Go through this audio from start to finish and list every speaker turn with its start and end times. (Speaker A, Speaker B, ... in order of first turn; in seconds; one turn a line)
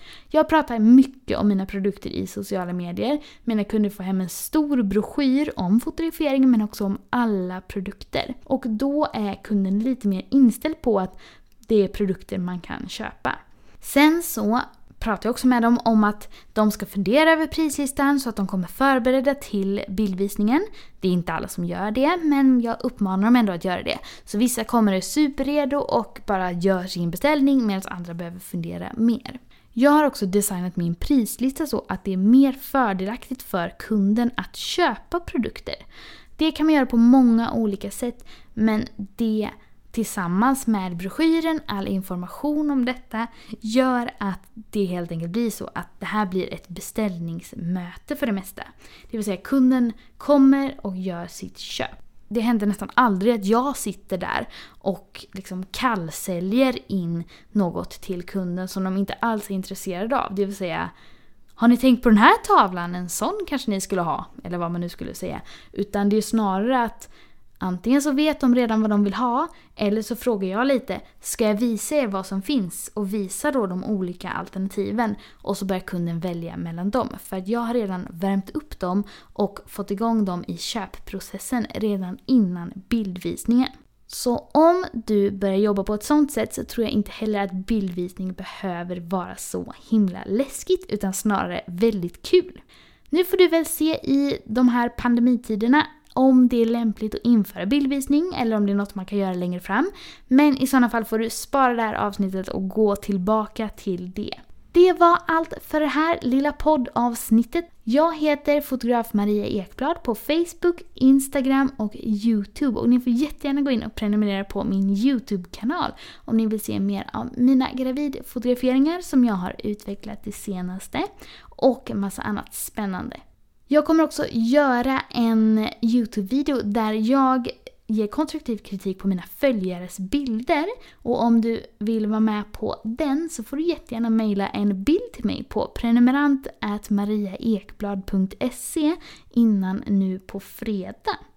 Speaker A: 0.3-35.8
Speaker A: 36.4-60.9
Speaker A: 61.6-141.2